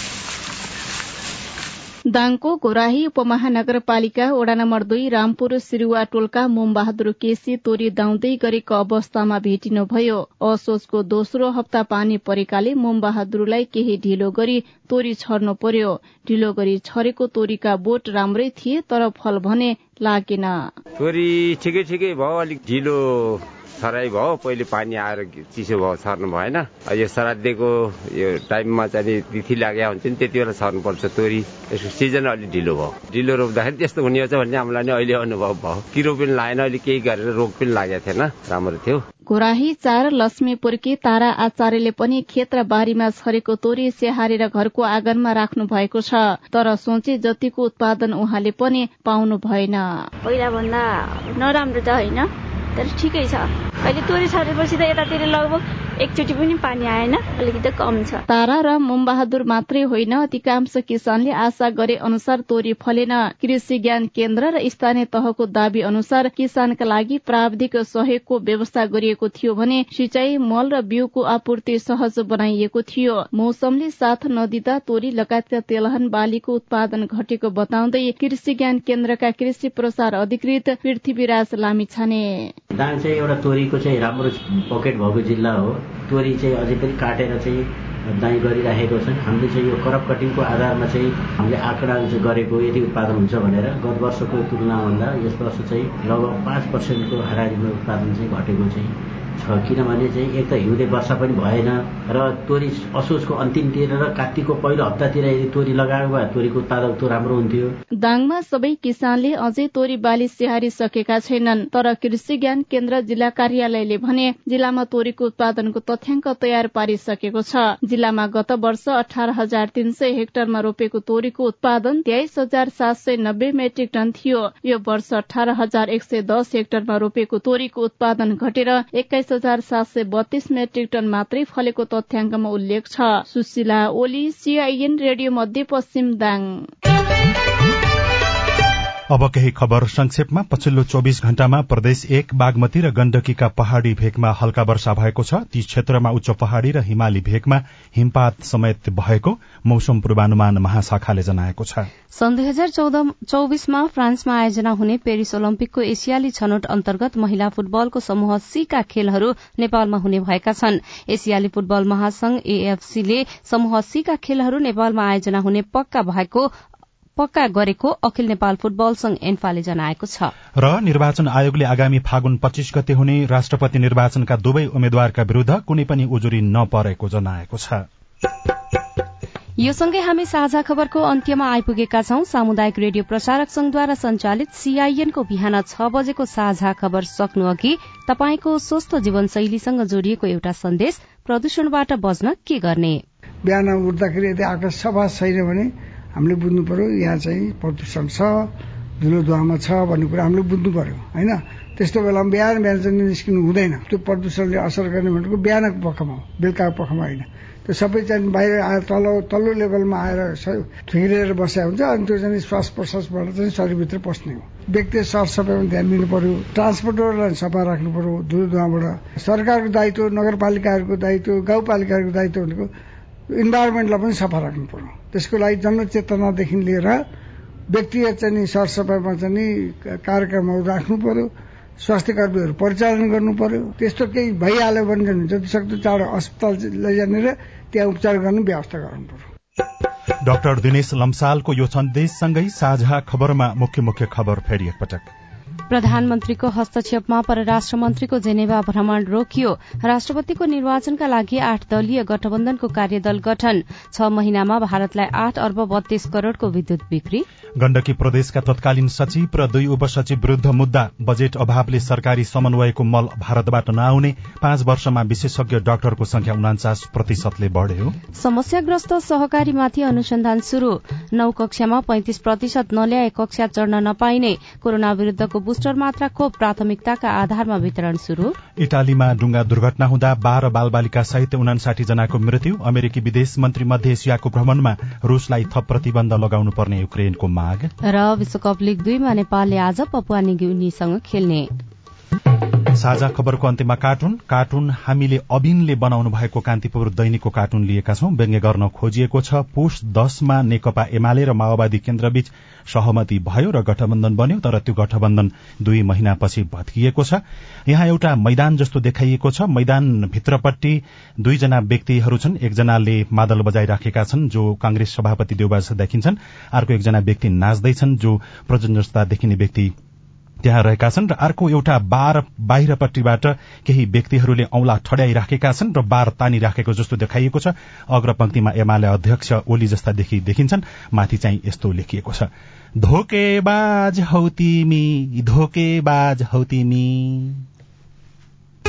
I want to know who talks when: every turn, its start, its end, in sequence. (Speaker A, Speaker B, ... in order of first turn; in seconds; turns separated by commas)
Speaker A: 2.1-20.7, Speaker B: 21.0-39.0, Speaker A: 39.3-49.8, Speaker C: 50.2-58.2, Speaker A: 58.3-82.5, Speaker D: 82.8-107.8, Speaker A: 108.0-136.7, Speaker E: 139.1-151.9, Speaker F: 152.1-166.5, Speaker F: 167.2-170.3, Speaker E: 170.6-177.8, Speaker F: 179.6-193.0, Speaker G: 193.5-198.5, Speaker G: 199.0-222.7, Speaker G: 223.3-227.0, Speaker G: 227.7-239.3, Speaker E: 240.2-245.1, Speaker F: 245.7-257.2, Speaker E: 257.6-268.0, Speaker F: 268.1-278.4, Speaker E: 278.6-287.7, Speaker F: 287.8-291.5, Speaker E: 292.8-319.7, Speaker E: 320.4-332.3, Speaker E: 332.8-337.4